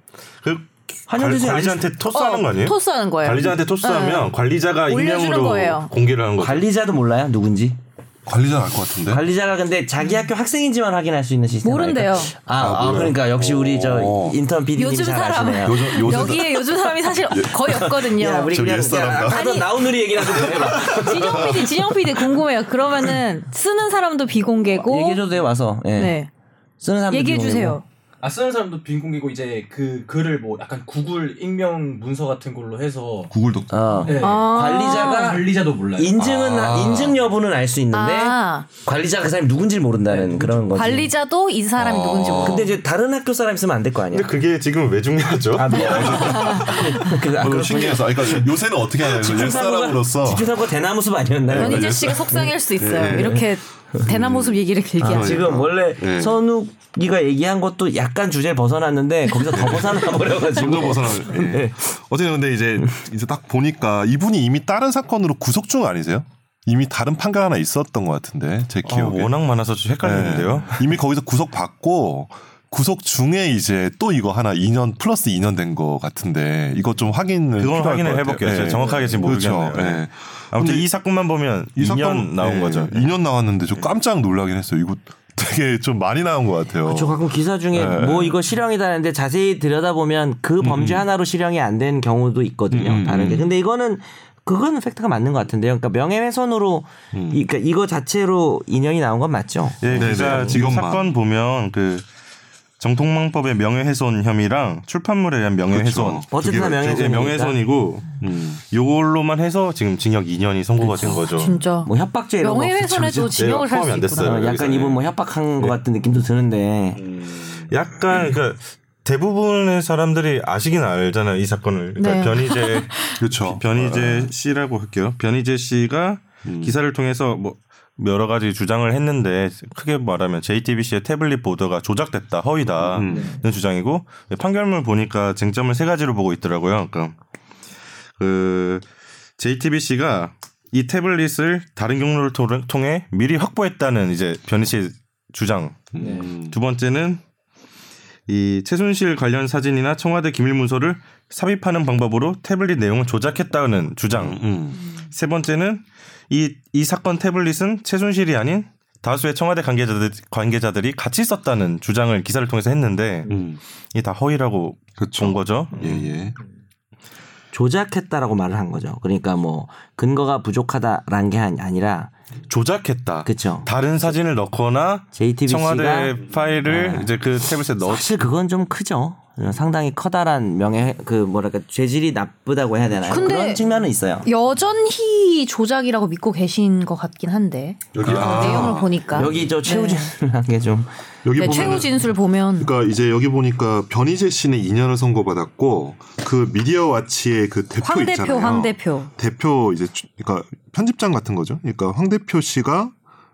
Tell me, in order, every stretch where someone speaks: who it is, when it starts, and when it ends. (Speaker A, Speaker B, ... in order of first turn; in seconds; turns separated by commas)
Speaker A: 0.4-6.6, Speaker B: 1.1-1.9, Speaker C: 2.1-4.3, Speaker C: 4.9-5.9, Speaker B: 6.4-7.8, Speaker D: 8.2-9.2, Speaker B: 9.1-16.3, Speaker C: 11.6-12.3, Speaker D: 12.6-14.4, Speaker C: 14.7-18.5, Speaker D: 15.6-22.2, Speaker B: 17.7-21.7, Speaker C: 19.3-19.7, Speaker C: 20.8-25.2, Speaker B: 24.8-26.2, Speaker C: 25.9-26.3, Speaker B: 26.8-27.8, Speaker C: 27.1-27.8, Speaker E: 28.2-33.3, Speaker D: 33.3-34.2, Speaker B: 33.7-41.1, Speaker E: 34.0-36.3, Speaker C: 34.2-35.4, Speaker D: 36.2-37.2, Speaker C: 37.9-38.7, Speaker E: 40.0-41.0, Speaker C: 40.7-42.7, Speaker D: 41.8-42.6, Speaker B: 42.4-44.3, Speaker A: 44.1-46.1, Speaker B: 45.5-52.2, Speaker D: 45.7-50.5, Speaker C: 46.0-46.8, Speaker D: 51.5-56.4, Speaker C: 51.5-55.5, Speaker B: 53.0-53.4, Speaker B: 55.0-61.8, Speaker D: 59.5-69.3, Speaker A: 68.8-70.9, Speaker D: 70.0-80.8, Speaker A: 77.6-83.1, Speaker B: 78.8-79.2, Speaker D: 81.8-88.4, Speaker B: 86.8-100.6, Speaker A: 90.6-91.0, Speaker D: 92.7-93.5, Speaker D: 97.1-97.4, Speaker A: 99.8-102.0, Speaker D: 99.9-101.1, Speaker A: 102.8-111.6, Speaker D: 105.7-106.2, Speaker B: 106.3-107.6, Speaker D: 108.2-108.6, Speaker D: 110.9-111.2, Speaker C: 111.4-114.5, Speaker B: 111.8-113.3, Speaker A: 113.3-115.0, Speaker B: 114.2-117.0, Speaker A: 117.2-137.1, Speaker D: 117.2-117.6, Speaker C: 122.0-123.2, Speaker D: 123.2-124.3, Speaker D: 126.4-126.8, Speaker D: 132.8-133.3, Speaker E: 133.1-133.3, Speaker A: 138.2-138.8, Speaker A: 139.4-147.2, Speaker D: 145.9-146.6, Speaker E: 146.0-146.3, Speaker A: 148.3-163.3, Speaker D: 154.1-154.8, Speaker D: 163.3-163.6, Speaker A: 163.9-166.0, Speaker D: 165.0-166.3, Speaker B: 167.5-172.1, Speaker A: 172.5-178.1, Speaker B: 173.2-173.7, Speaker B: 175.1-177.1, Speaker B: 177.8-184.3, Speaker C: 183.1-183.6, Speaker C: 184.2-190.1, Speaker D: 187.9-189.5, Speaker A: 188.0-188.7, Speaker B: 188.3-190.9, Speaker D: 191.2-202.9, Speaker C: 191.3-192.7, Speaker C: 197.8-199.1